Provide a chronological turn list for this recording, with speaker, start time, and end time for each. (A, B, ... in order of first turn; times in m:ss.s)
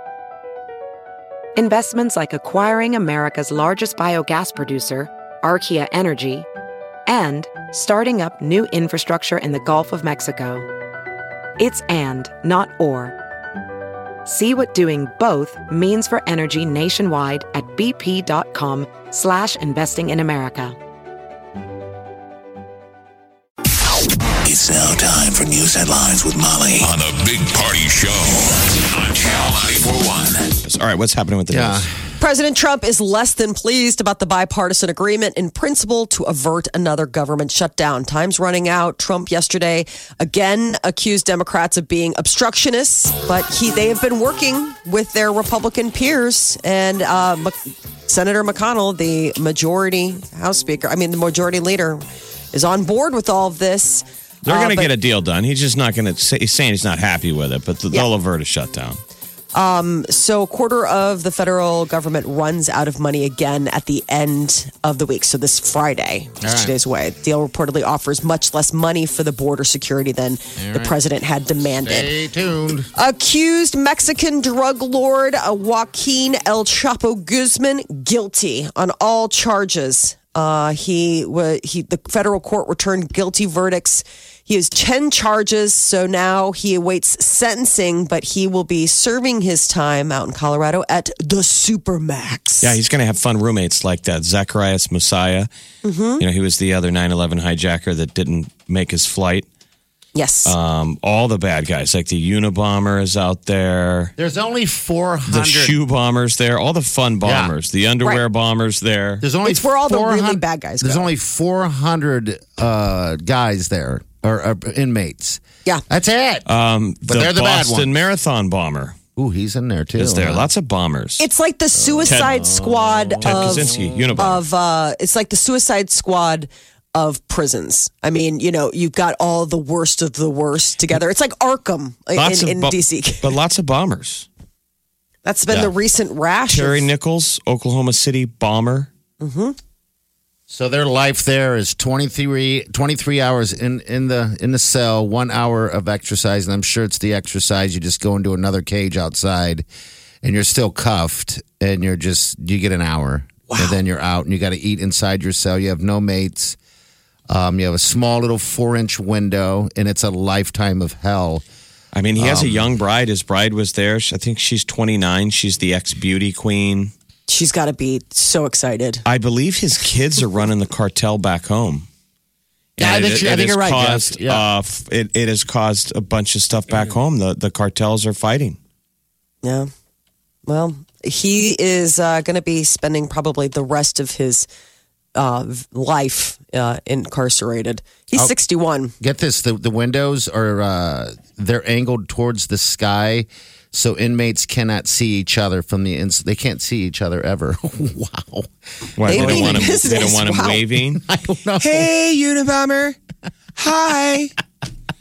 0:01.6-0:06.5 A
0:07.1-0:10.6 A
0:11.6-0:13.2 A
0:14.3-0:20.8 A
0:24.4-0:30.6 B
0:30.6-0:31.9 C
0:31.5-0:31.9 D
0:32.2-0:54.9 E
0:54.4-0:59.0 C
0:59.5-1:12.1 E
1:06.4-1:06.8 D
1:10.6-1:11.0 D
1:11.7-1:12.9 D
1:13.0-1:32.8 E
1:32.6-1:35.5 C
1:35.8-1:36.2 E
1:36.2-1:39.5 C
1:40.2-1:40.6 E
1:40.4-1:44.1 C
1:44.2-1:45.8 D
1:45.3-1:49.2 C
1:47.2-1:47.5 D
1:49.2-1:56.5 D
1:49.4-1:51.1 E
1:56.5-1:59.0 C
1:57.1-1:57.9 D
1:59.2-2:00.5 D
2:00.0-2:01.2 C
2:01.2-2:13.3 E
2:01.8-2:04.2 D
2:03.2-2:04.4 C
2:12.2-2:14.3 C
2:15.2-2:16.9 E
2:15.5-2:15.7 C
2:16.5-2:18.9 C
2:19.2-2:19.6 E
2:20.5-2:29.7 D
2:30.2-2:36.6 D
2:33.5-2:33.8 E
2:37.3-2:41.4 D
2:41.9-2:46.9 C
2:42.2-2:42.7 D
2:47.3-2:49.0 E
2:49.1-2:51.9 C
2:52.8-2:58.6 C
2:52.8-2:54.5 D
2:59.4-2:59.7 E
3:00.5-3:04.5 E
3:05.2-3:08.9 E
3:09.0-3:18.5 D
3:19.0-3:21.0 C
3:19.0-3:20.6 E
3:19.1-3:19.8 D
3:20.9-3:21.9 D
3:21.6-3:23.0 C
3:23.6-3:24.3 C